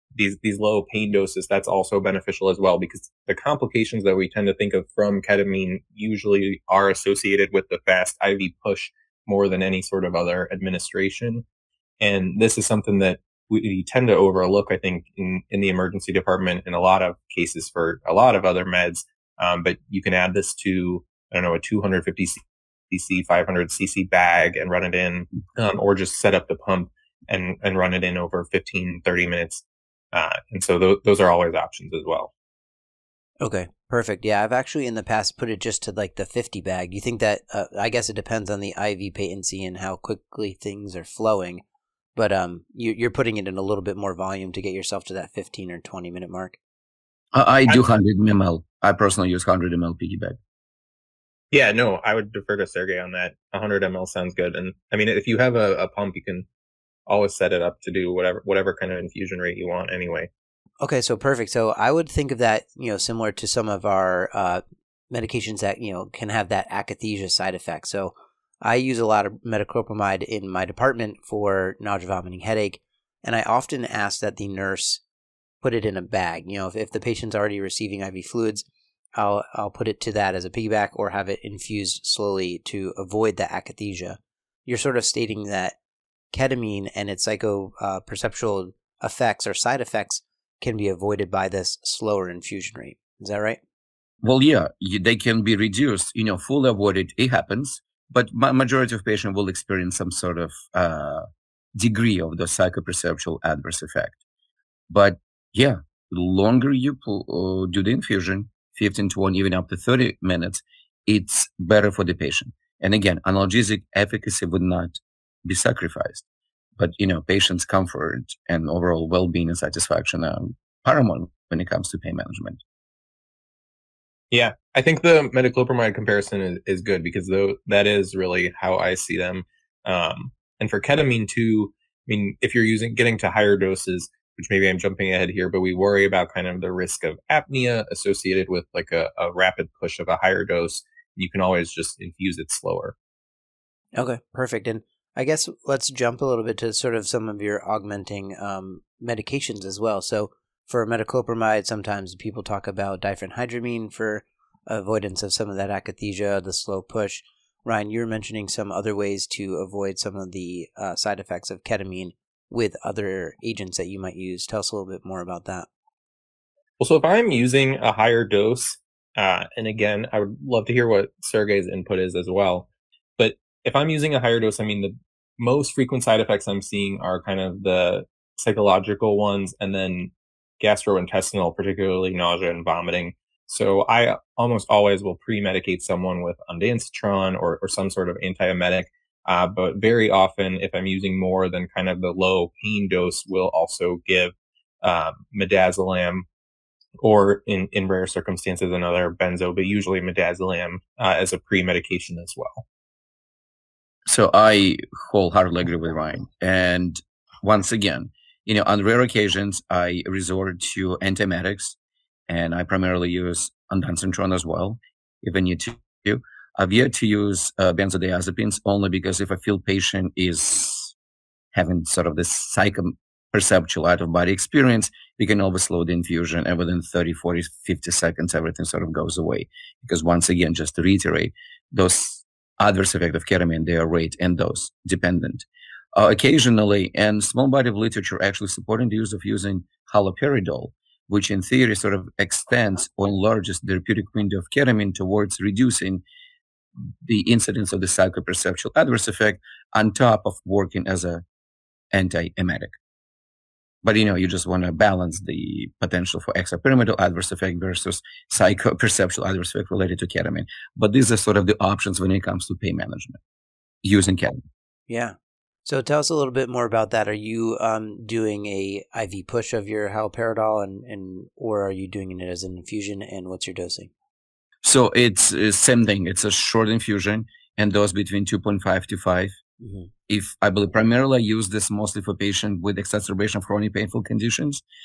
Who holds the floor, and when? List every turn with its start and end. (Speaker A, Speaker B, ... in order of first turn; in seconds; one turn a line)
Speaker A: 0.1-11.4
Speaker A: 12.0-32.3
Speaker B: 33.4-41.6
Speaker B: 42.2-46.6
Speaker C: 47.3-50.4
Speaker A: 51.5-56.5
Speaker A: 57.1-60.3
Speaker B: 60.8-75.0
Speaker B: 75.6-78.7
Speaker B: 79.2-85.8
Speaker B: 86.3-93.6
Speaker C: 94.2-101.3
Speaker C: 101.8-104.2
Speaker C: 104.9-116.2
Speaker C: 116.8-122.6
Speaker A: 124.3-142.9
Speaker B: 144.0-165.7
Speaker A: 166.8-196.2
Speaker A: 197.0-202.6
Speaker C: 204.1-211.8
Speaker C: 212.3-220.9
Speaker C: 221.5-246.0
Speaker C: 247.0-251.2
Speaker C: 251.9-252.7
Speaker C: 253.8-263.2
Speaker C: 263.8-264.4
Speaker B: 264.9-273.9
Speaker C: 274.6-279.4
Speaker B: 279.6-279.9
Speaker C: 280.1-284.6